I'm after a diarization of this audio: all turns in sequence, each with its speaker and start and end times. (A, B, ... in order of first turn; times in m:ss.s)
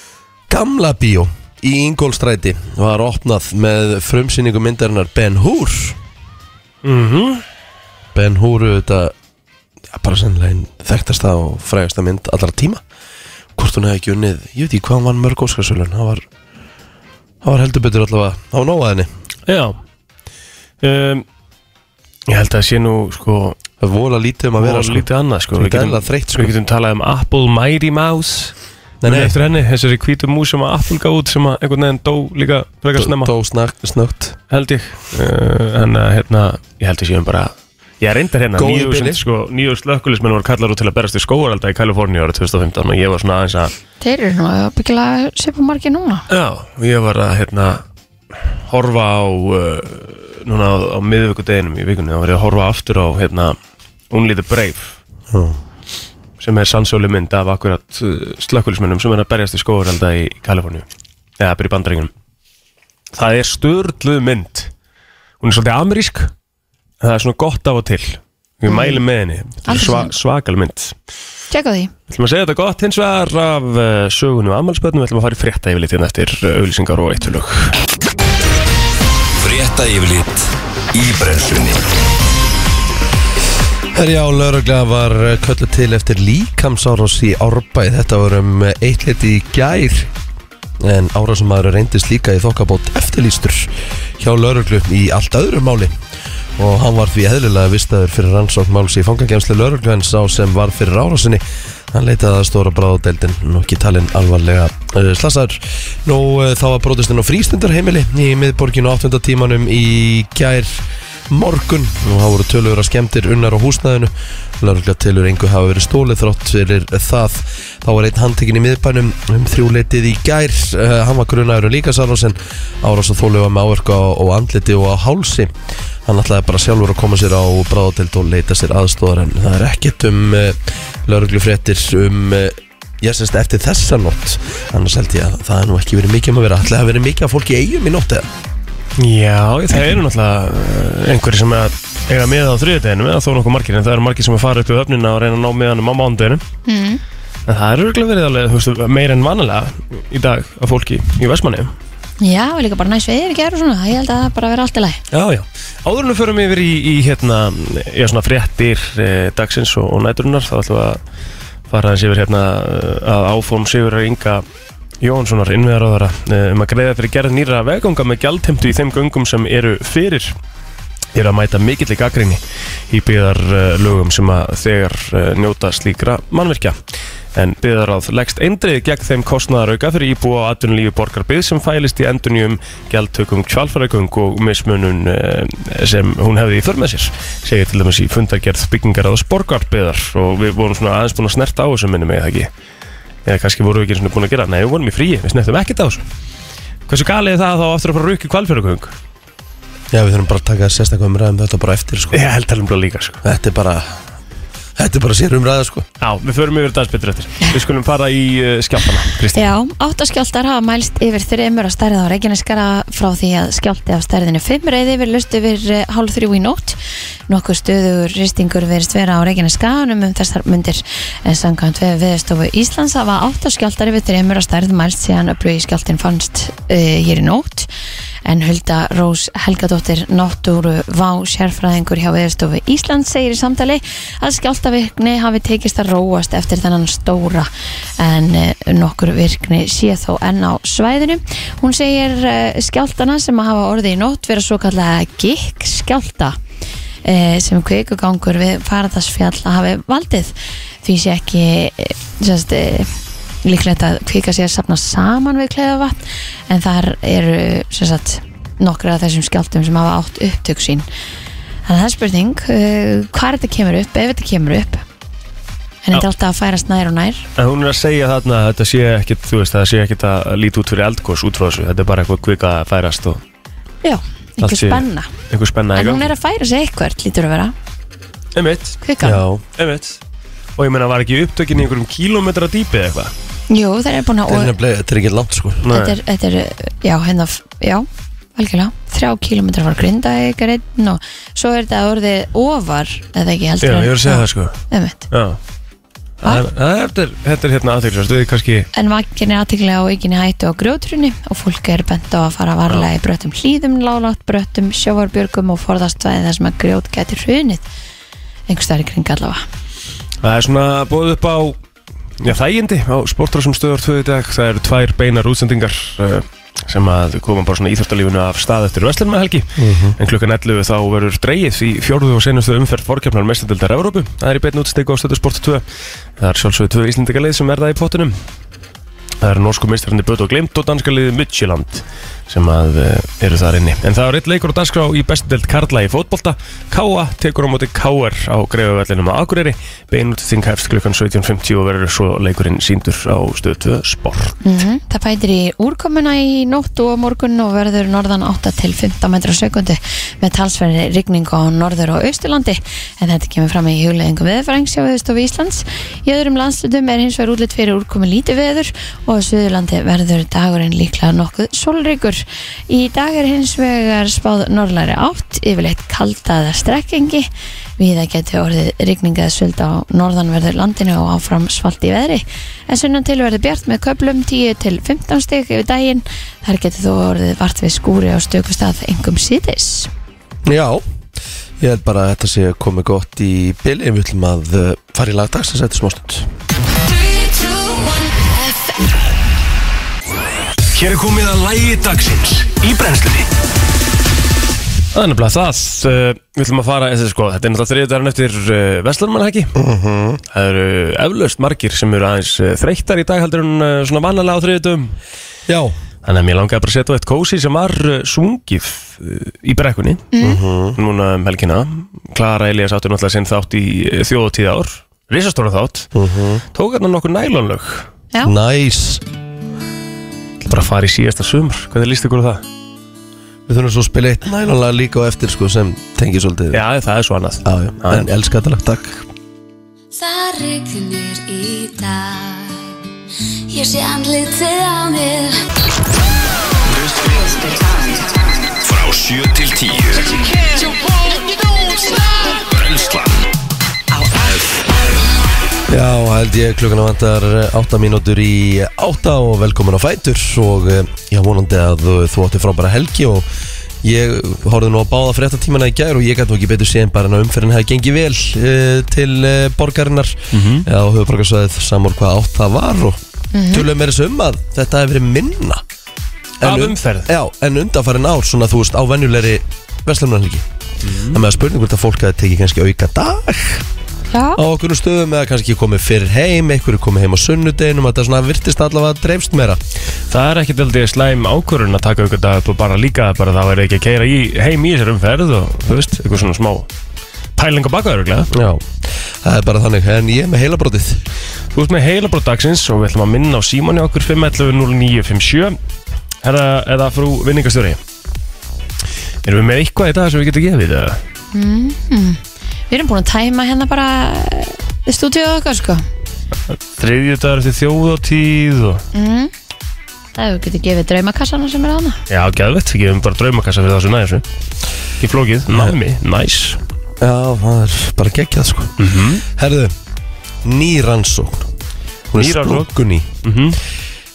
0:00.5-0:06.0 A
0:06.8-0:07.4 B
0:08.2-0:09.1 A
0:09.9-0:12.8 A
0:13.6-0:16.3 A
0:17.4-0:19.1 A
0:19.5-0:19.8 B
0:20.8-0:21.2 B
0:22.3-0:23.6 B
0:23.8-0:26.5 A
0:24.6-0:33.3 B
0:29.0-0:29.4 A
0:33.0-0:34.4 A
0:34.5-0:43.8 B
0:38.6-0:39.2 A
0:44.0-0:46.3 C
0:46.3-0:47.8 B
0:48.6-0:53.6 B
0:54.1-0:55.0 B
0:55.3-0:55.6 A
0:56.4-1:00.8 B
1:01.4-1:02.1 B
1:03.1-1:04.7 B
1:05.4-1:06.3 B
1:07.0-1:10.9 B
1:08.7-1:09.0 C
1:09.6-1:10.1 C
1:11.5-1:11.9 C
1:12.1-1:17.8 B
1:19.4-1:21.8 D
1:23.9-1:30.1 A
1:30.8-1:35.9 A
1:36.6-2:05.5 A
2:06.0-2:18.3 A
2:19.0-2:26.4 B
2:26.7-2:27.0 C
2:27.5-2:31.7 B
2:32.2-2:35.0 C
2:35.1-2:41.0 B
2:41.7-2:44.4 B
2:45.0-2:50.4 B
2:51.1-2:56.8 B
2:57.4-3:12.5 B
3:13.3-3:16.0 B
3:16.9-3:18.9 B
3:19.9-3:22.2 A
3:22.1-3:23.2 B
3:23.2-3:24.0 A
3:24.8-3:25.9 A
3:26.0-3:29.5 B
3:29.4-3:47.7 C
3:48.2-3:57.5 C
3:58.0-4:06.4 C
4:07.0-4:12.9 C
4:13.4-4:20.8 C
4:21.7-4:24.8 C
4:25.9-4:27.3 C
4:27.4-4:33.2 B
4:33.8-4:35.1 C
4:34.4-4:36.1 B
4:35.8-4:37.5 C
4:38.4-4:38.8 B
4:38.8-4:39.2 C
4:39.0-4:39.4 A
4:39.6-4:40.0 B
4:40.6-4:43.1 B
4:43.5-4:44.5 C
4:44.3-4:45.7 A
4:45.6-4:46.0 B
4:45.7-4:55.0 C
4:53.6-4:54.6 B
4:55.1-4:55.4 B
4:56.2-4:58.7 B
4:58.7-5:07.6 C
5:08.5-5:09.4 C
5:10.2-5:11.6 B
5:12.2-5:25.6 B
5:19.6-5:20.0 A
5:26.2-5:28.2 B
5:29.2-5:44.4 B
5:44.4-6:07.3 C
6:07.8-6:19.9 C
6:20.4-6:20.8 A
6:21.6-6:26.3 A
6:30.7-6:33.3 B
6:34.9-6:39.5 B
6:39.5-6:40.2 A
6:40.3-6:45.0 B
6:45.5-6:45.8 A
6:46.0-6:50.2 B
6:50.2-6:50.4 C
6:50.2-6:50.8 A
6:50.8-6:55.9 B
6:55.9-6:56.4 A
6:56.5-6:57.9 B
6:58.2-6:59.0 A
7:00.5-7:02.4 B
7:03.5-7:06.6 A
7:06.5-7:08.1 B
7:07.4-7:09.1 A
7:09.9-7:12.8 E
7:13.5-7:15.4 E
7:16.7-7:17.0 D
7:16.8-7:18.5 E
7:18.6-7:20.5 D
7:22.3-7:23.3 D
7:24.1-7:24.6 D
7:25.7-7:33.3 A
7:33.8-7:43.0 A
7:40.3-7:40.7 B
7:43.3-7:43.7 C
7:43.5-7:45.6 A
7:46.4-7:50.4 A
7:46.4-7:47.1 B
7:50.8-7:51.2 B
7:51.1-7:53.6 A
7:54.1-7:54.4 C
7:54.4-7:59.6 A
8:00.1-8:06.7 B
8:07.4-8:08.3 B
8:08.3-8:11.0 A
8:11.6-8:15.6 B
8:16.2-8:17.8 B
8:19.2-8:21.0 B
8:21.3-8:25.8 C
8:26.5-8:28.8 B
8:28.9-8:29.3 C
8:30.2-8:32.0 C
8:32.1-8:34.2 B
8:35.0-8:36.6 B
8:37.0-8:39.8 A
8:38.8-8:39.2 B
8:40.4-8:41.5 A
8:42.1-8:43.1 A
8:42.2-8:42.7 B
8:43.2-8:43.6 B